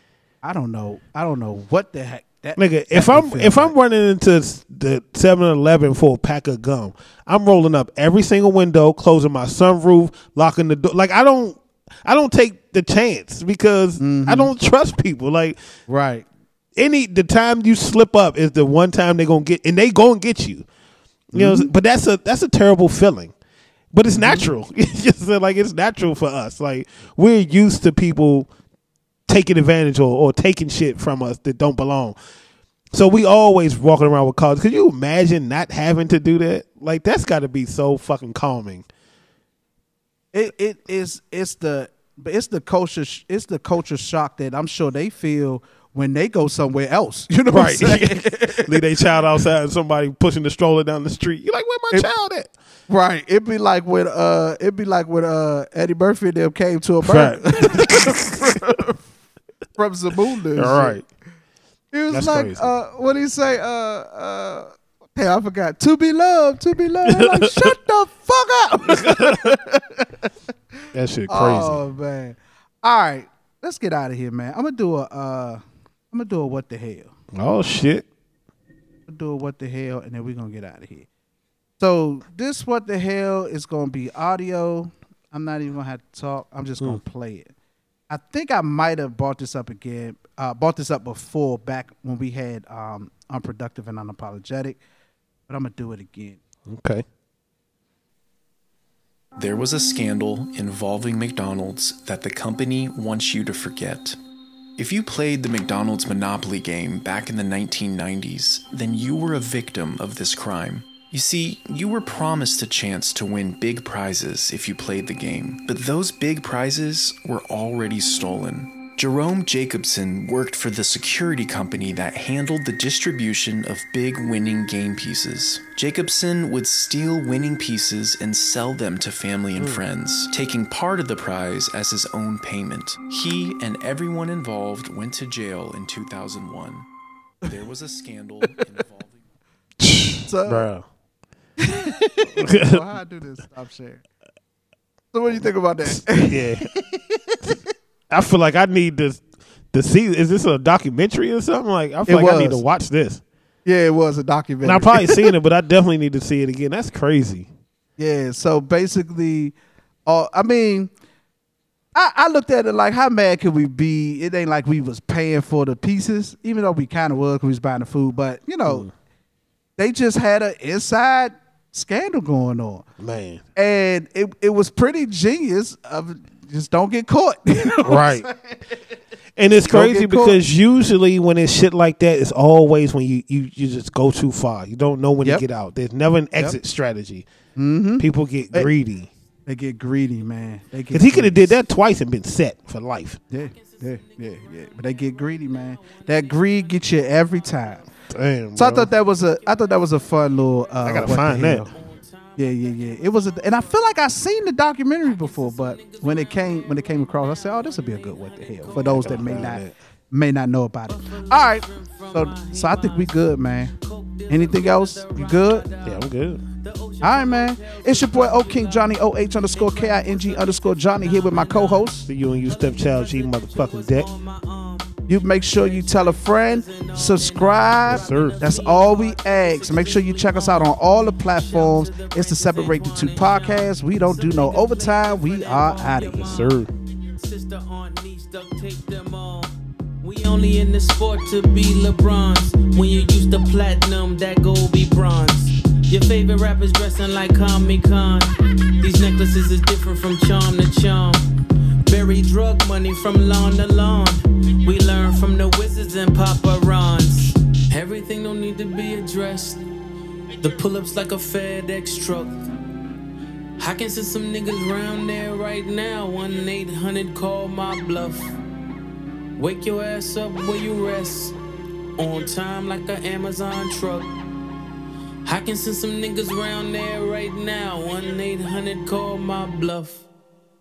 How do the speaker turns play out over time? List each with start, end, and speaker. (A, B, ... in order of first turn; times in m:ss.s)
0:00.4-0:03.7 A
0:02.6-0:15.6 B
0:14.0-0:14.5 A
0:15.9-0:16.3 A
0:16.8-0:20.7 B
0:21.3-0:23.3 B
0:21.3-0:21.7 A
0:23.9-0:28.5 B
0:24.2-0:24.5 A
0:29.3-0:32.2 B
0:32.9-0:38.8 B
0:40.3-0:48.8 A
0:47.5-0:52.5 B
0:52.9-0:59.0 A
0:57.0-0:58.7 B
0:59.8-1:01.0 A
1:00.6-1:01.0 B
1:01.9-1:10.3 A
1:02.1-1:02.7 B
1:07.1-1:07.7 B
1:08.9-1:09.5 B
1:10.9-1:11.8 B
1:11.3-1:17.1 A
1:17.3-1:18.1 B
1:19.1-1:21.1 A
1:21.8-1:27.5 A
1:28.1-1:34.8 A
1:35.5-1:36.4 A
1:36.7-1:37.0 B
1:39.4-1:44.2 C
1:44.8-2:16.9 C
2:17.4-2:19.2 C
2:19.8-2:20.8 B
2:20.2-2:20.7 A
2:21.6-2:24.0 A
2:22.4-2:22.8 B
2:25.1-2:27.6 A
2:25.9-2:26.7 B
2:28.1-2:33.2 B
2:32.1-2:32.6 A
2:33.6-2:35.3 A
2:34.6-2:37.5 B
2:38.0-2:39.6 A
2:40.1-2:40.9 A
2:42.0-2:48.9 A
2:49.8-2:52.8 A
2:53.0-2:53.4 B
2:53.6-2:58.6 A
2:57.8-2:58.3 B
2:59.4-3:07.2 B
2:59.7-3:00.4 A
3:07.6-3:08.7 A
3:08.0-3:09.1 B
3:09.5-3:11.6 A
3:10.9-3:13.2 B
3:13.3-3:17.9 A
3:13.3-3:18.0 D
3:18.1-3:18.9 B
3:18.6-3:21.7 A
3:18.7-3:24.3 D
3:20.8-3:21.7 B
3:22.4-3:33.7 A
3:25.0-3:29.6 D
3:28.8-3:29.7 B
3:30.9-4:11.2 D
3:34.3-3:35.6 A
3:35.8-3:36.4 B
3:37.0-3:42.1 A
3:42.1-3:44.1 B
3:45.1-3:56.4 A
3:47.9-3:48.4 B
3:56.0-3:56.7 B
4:11.8-4:19.6 D
4:20.4-4:22.4 D
4:23.6-4:28.4 D
4:29.4-4:31.4 D
4:32.0-4:34.1 D
4:35.2-4:40.1 D